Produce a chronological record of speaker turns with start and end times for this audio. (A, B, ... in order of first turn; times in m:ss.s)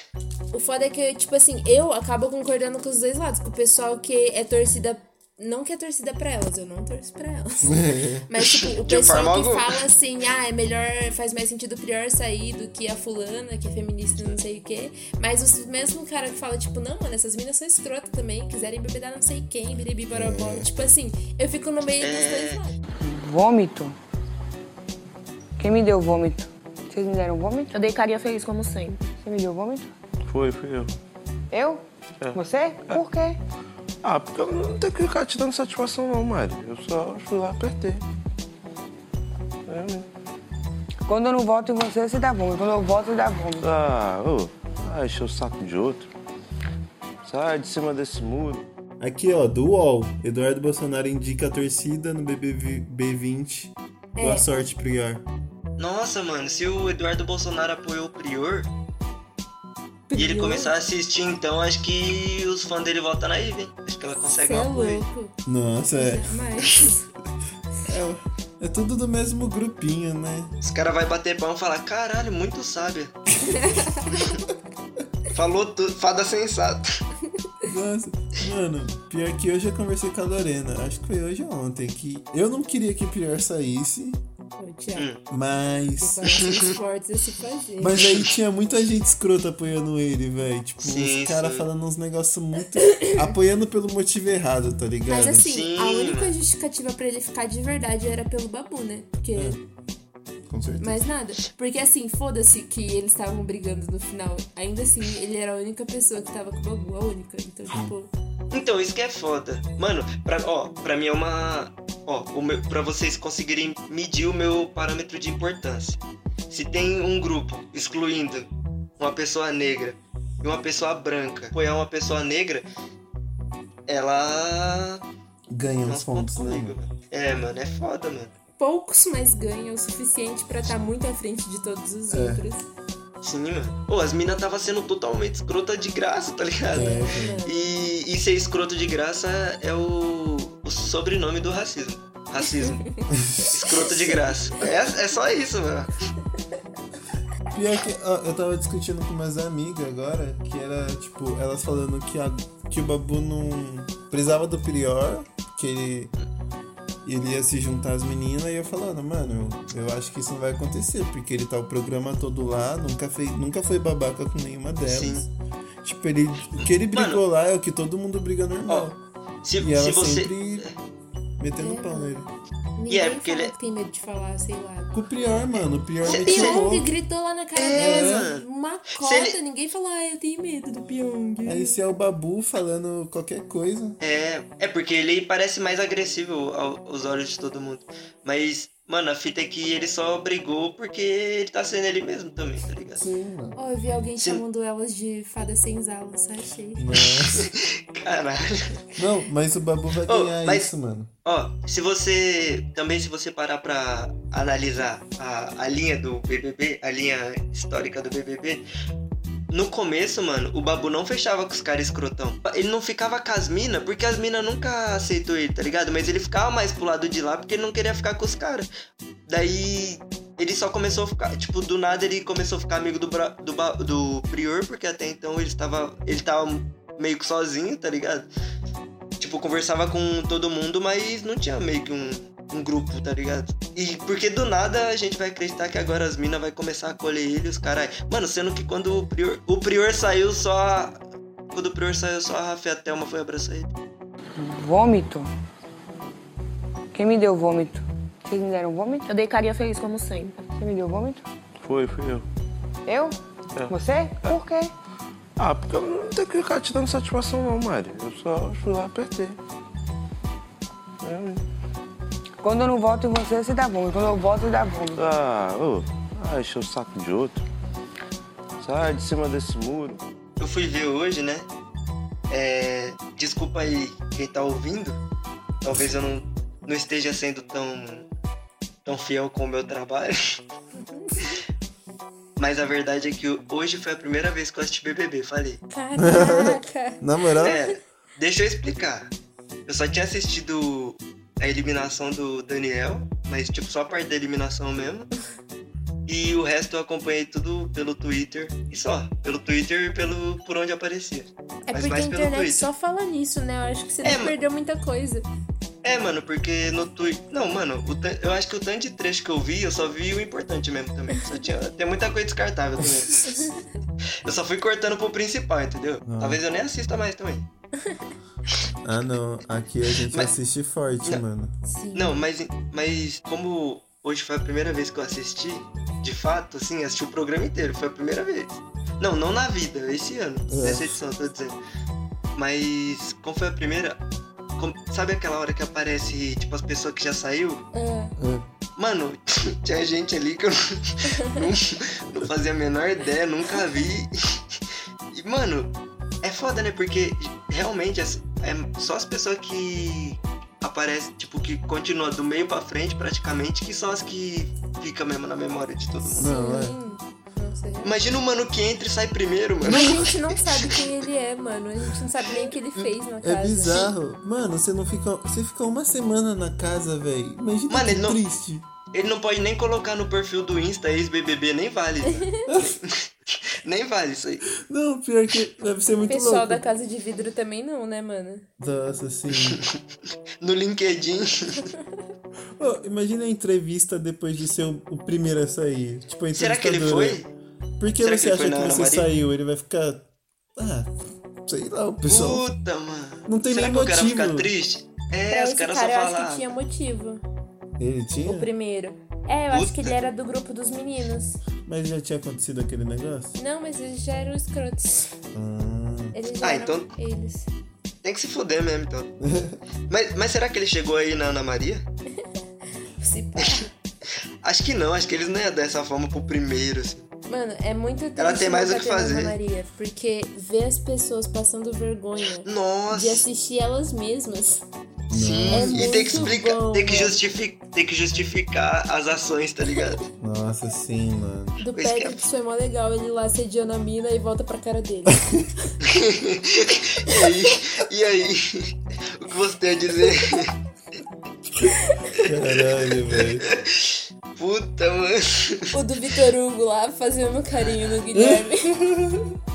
0:00.5-0:22.7 A
0:07.6-0:08.3 B
0:08.8-0:09.8 C
0:20.1-0:20.7 B
0:22.0-0:22.6 C
0:23.0-0:24.0 D
0:25.6-0:27.7 D
0:27.7-0:29.1 E
0:29.2-0:29.9 D
0:30.3-0:30.9 F
0:31.5-0:33.4 D
0:32.2-0:33.0 F
0:34.0-0:38.0 F
0:39.7-0:40.1 F
0:41.0-0:43.7 D
0:43.6-0:46.1 F
0:47.3-0:48.7 F
0:49.0-0:55.2 B
0:54.2-0:54.5 A
0:55.8-0:58.7 C
1:00.1-1:00.7 A
1:00.2-1:05.1 C
1:04.2-1:05.3 A
1:05.5-1:06.3 B
1:06.0-1:07.1 A
1:07.8-1:10.5 B
1:10.6-1:13.2 C
1:13.5-1:14.4 A
1:15.3-1:17.0 C
1:17.6-1:24.2 B
1:24.6-1:25.1 A
1:25.0-1:25.2 C
1:25.3-1:26.4 B
1:26.0-1:28.0 A
1:27.8-1:35.5 B
1:30.8-1:31.7 C
1:32.8-1:33.3 A
1:35.1-1:39.6 A
1:35.4-1:36.4 C
1:39.3-1:39.6 B
1:40.5-1:41.1 B
1:40.8-1:48.1 A
1:47.7-1:47.9 B
1:48.5-2:02.7 C
2:03.9-2:05.0 C
2:05.5-2:06.8 B
2:05.8-2:08.3 C
2:08.6-2:12.7 A
2:12.1-2:12.4 B
2:13.2-2:26.0 C
2:16.7-2:17.4 B
2:16.7-2:17.6 A
2:22.6-2:23.1 A
2:23.1-2:23.5 B
2:23.6-2:24.6 A
2:27.5-2:36.1 B
2:37.0-2:45.3 B
2:44.9-2:45.3 C
2:45.8-2:49.0 B
2:46.6-2:47.2 C
2:48.7-2:48.9 C
2:49.4-2:50.7 C
2:49.6-2:50.7 B
2:51.4-2:52.3 B
2:51.6-2:52.2 A
2:52.8-2:55.0 A
2:52.9-2:53.5 C
2:54.9-2:56.9 B
2:56.0-3:01.8 A
2:56.1-2:56.6 C
2:57.6-2:59.4 C
2:57.8-2:58.3 B
3:01.4-3:04.0 B
3:04.0-3:13.1 C
3:13.0-3:13.6 B
3:13.6-3:16.9 A
3:16.8-3:17.5 B
3:17.2-3:18.9 C
3:19.0-3:21.1 B
3:20.1-3:20.7 C
3:21.2-3:28.6 C
3:29.5-3:38.7 C
3:39.3-3:48.3 C
3:49.2-4:01.0 C
4:01.5-4:03.7 C
4:04.4-4:05.3 D
4:06.9-4:09.1 D
4:09.1-4:10.5 E
4:10.6-4:11.3 D
4:11.6-4:12.3 F
4:12.9-4:14.7 D
4:13.6-4:14.4 F
4:15.4-4:19.4 F
4:21.0-4:21.4 F
4:22.4-4:25.0 D
4:25.0-4:27.4 F
4:28.6-4:30.0 F
4:30.4-4:31.5 C
4:32.3-4:35.0 C
4:35.6-4:38.1 C
4:38.8-4:40.2 C
4:40.9-4:41.2 A
4:42.4-4:45.6 C
4:45.7-4:47.5 A
4:46.0-4:47.6 B
4:47.4-4:49.1 C
4:49.7-4:55.1 C
4:56.1-5:02.7 C
5:01.7-5:05.3 A
5:04.0-5:04.4 C
5:05.8-5:13.5 C
5:12.8-5:13.1 B
5:13.3-5:13.6 A
5:14.2-5:17.5 C
5:16.1-5:16.4 B
5:18.8-5:21.6 B
5:20.0-5:20.3 C
5:21.6-5:22.2 A
5:21.9-5:31.6 C
5:30.5-5:31.0 B
5:32.4-5:34.0 C
5:34.6-5:37.6 C
5:37.7-5:38.2 A
5:38.2-5:38.5 B
5:38.8-5:44.1 C
5:45.1-5:56.3 C
5:56.0-5:58.0 A
5:56.2-5:56.8 B
5:57.8-6:00.7 C
5:59.6-6:03.9 A
6:03.2-6:08.7 B
6:07.7-6:08.2 C
6:08.9-6:13.0 C
6:12.5-6:12.8 B
6:13.6-6:14.4 C
6:14.6-6:16.6 B
6:16.1-6:18.5 A
6:18.6-6:19.6 B
6:19.4-6:19.7 C
6:20.4-6:21.7 C
6:22.6-6:27.2 B
6:26.3-6:27.3 C
6:27.8-6:32.4 B
6:28.0-6:29.1 C
6:32.1-6:36.5 C
6:33.3-6:34.5 B
6:35.3-6:37.2 A
6:37.8-6:38.5 B
6:38.2-6:41.4 A
6:39.5-6:40.0 C
6:41.6-6:43.4 B
6:43.4-6:45.1 A
6:45.3-6:46.2 B
6:46.1-6:47.5 A
6:46.4-6:46.9 C
6:48.0-6:49.1 C
6:49.2-6:49.6 B
6:49.9-6:51.8 C
6:53.0-6:53.7 A
6:54.4-6:57.1 C
6:57.3-7:04.6 A
6:58.2-6:59.4 C
7:02.4-7:03.3 C
7:05.1-7:06.4 B
7:05.1-7:10.0 C
7:05.5-7:07.1 A
7:10.2-7:11.6 B
7:11.6-7:15.8 A
7:11.7-7:12.3 C
7:15.8-7:20.5 C
7:22.2-7:25.7 C
7:22.2-7:23.5 B
7:25.7-7:29.0 A
7:28.1-7:29.2 B